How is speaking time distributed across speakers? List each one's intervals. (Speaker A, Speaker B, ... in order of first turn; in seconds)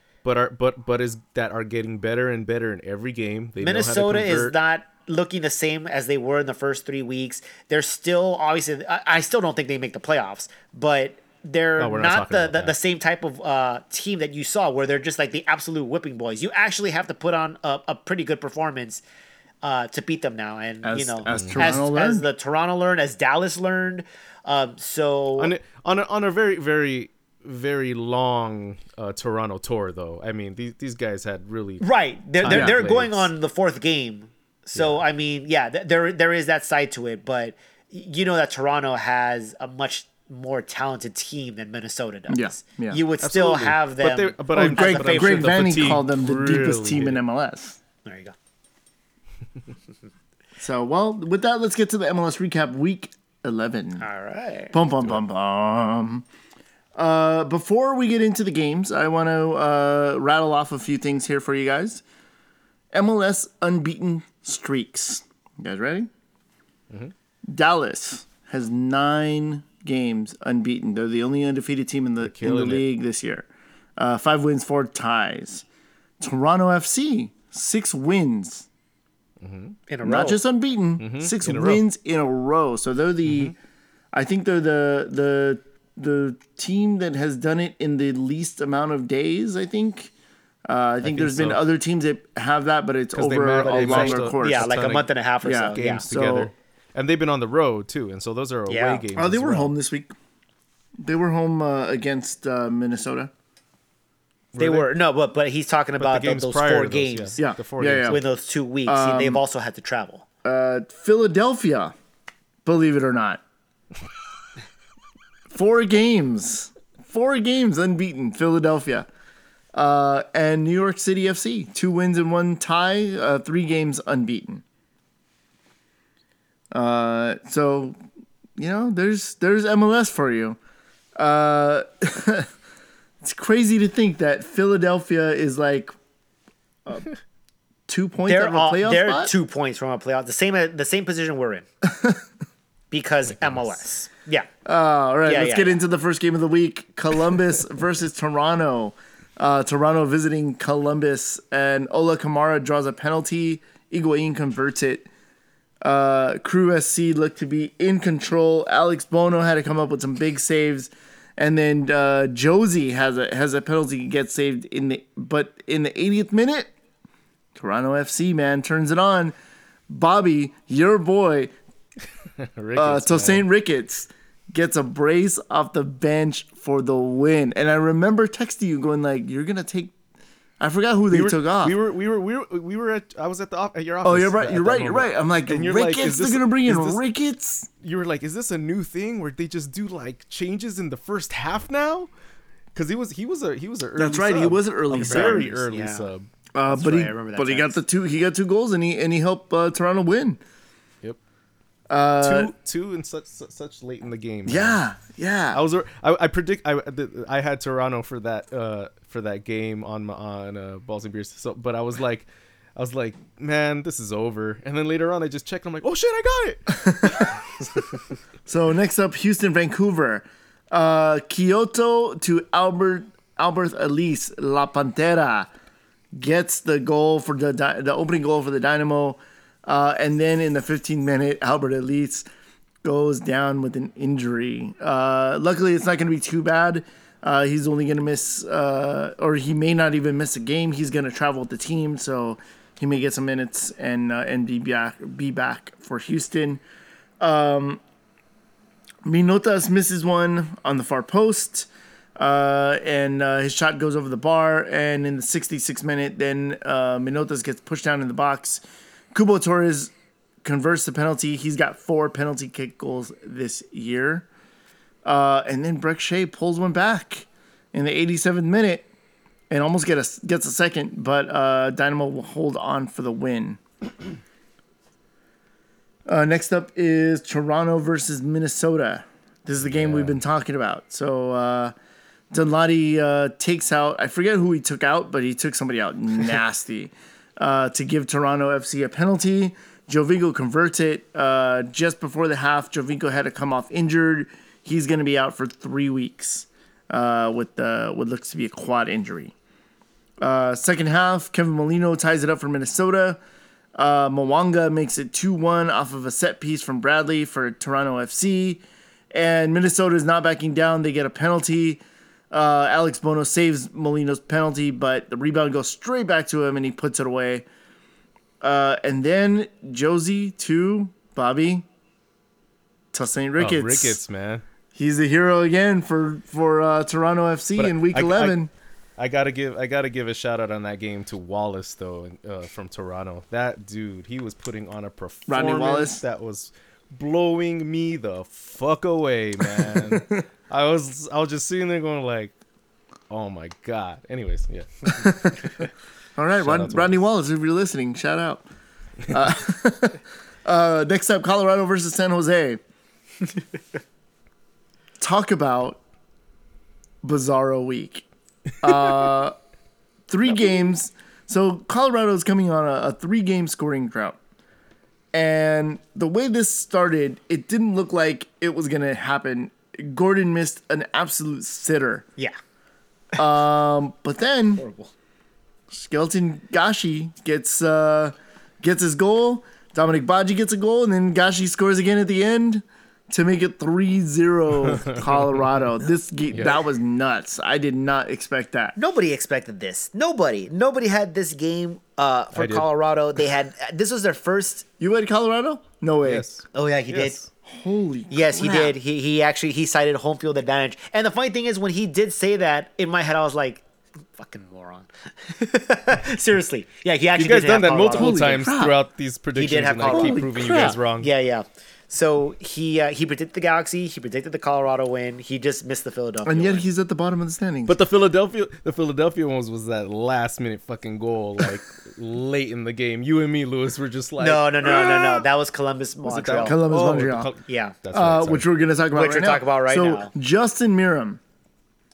Speaker A: 0.2-4.5, 11.8-12.8, 21.3-21.7, 25.4-31.9, 32.4-33.3, 34.8-35.0, 43.2-47.2, 72.2-72.8, 79.4-79.8, 81.0-81.8, 83.2-83.5, 91.0-91.6, 93.1-95.1, 95.7-99.7, 104.5-104.9, 106.0-108.2, 143.3-143.8, 172.4-173.4, 181.1-187.0, 187.8-192.1, 192.7-196.2, 202.2-204.8, 205.5-217.9, 279.6-280.2, 323.4-324.4, 327.6-328.4, 329.0-342.3, 343.1-345.7, 346.4-347.0, 384.6-385.0, 386.3-386.6, 392.3-392.7, 396.0-397.3, 407.1-411.1, 417.7-425.2, 426.0-428.5
Speaker B: 3.6-19.0, 19.6-25.5, 31.8-45.6, 48.0-48.3, 54.0-54.8, 79.9-80.4, 93.9-96.0, 98.7-99.0, 104.6-107.4, 108.1-110.2, 138.3-141.7, 142.9-144.5, 145.2-145.7, 194.9-196.1, 196.7-197.8, 374.6-374.9, 388.8-394.6, 396.5-397.2, 398.1-403.6, 404.1-408.4, 409.4-416.6, 424.2-426.6, 427.5-427.8, 428.9-430.1
Speaker C: 20.8-22.2, 32.4-32.7, 42.3-43.0, 44.5-47.8, 50.6-54.0, 54.7-56.2, 57.0-62.0, 62.9-66.1, 67.5-73.5, 74.0-75.6, 76.2-78.7, 80.0-83.5, 84.1-90.1, 90.7-94.7, 95.4-96.5, 99.1-100.1, 101.0-103.3, 107.4-108.2, 108.8-109.4, 110.4-111.9, 112.6-113.4, 115.5-119.1, 119.7-124.6, 126.7-128.0, 128.6-130.6, 131.2-132.5, 133.2-135.9, 137.9-139.3, 141.8-142.2, 144.6-155.1, 155.8-166.7, 167.6-169.3, 169.9-171.5, 172.7-179.9, 180.6-181.7, 184.0-187.7, 193.9-195.5, 196.5-200.4, 201.9-202.5, 204.4-205.6, 216.7-217.3, 218.4-225.5, 226.1-232.2, 232.8-246.6, 247.2-247.8, 249.0-259.9, 260.4-264.2, 265.0-268.9, 269.5-273.6, 276.1-281.7, 282.3-299.3, 300.2-303.2, 303.8-308.6, 309.1-311.8, 312.3-317.4, 318.4-321.6, 322.9-324.0, 324.7-328.5, 335.3-336.0, 339.4-340.2, 344.9-345.5, 346.2-348.4, 349.1-352.6, 355.0-355.8, 357.0-358.1, 358.6-359.3, 360.1-364.2, 365.1-372.1, 373.2-374.6, 375.7-388.7, 394.8-396.3, 397.4-398.7, 407.9-408.8, 409.9-410.8, 416.2-417.8, 426.4-427.3, 427.9-431.2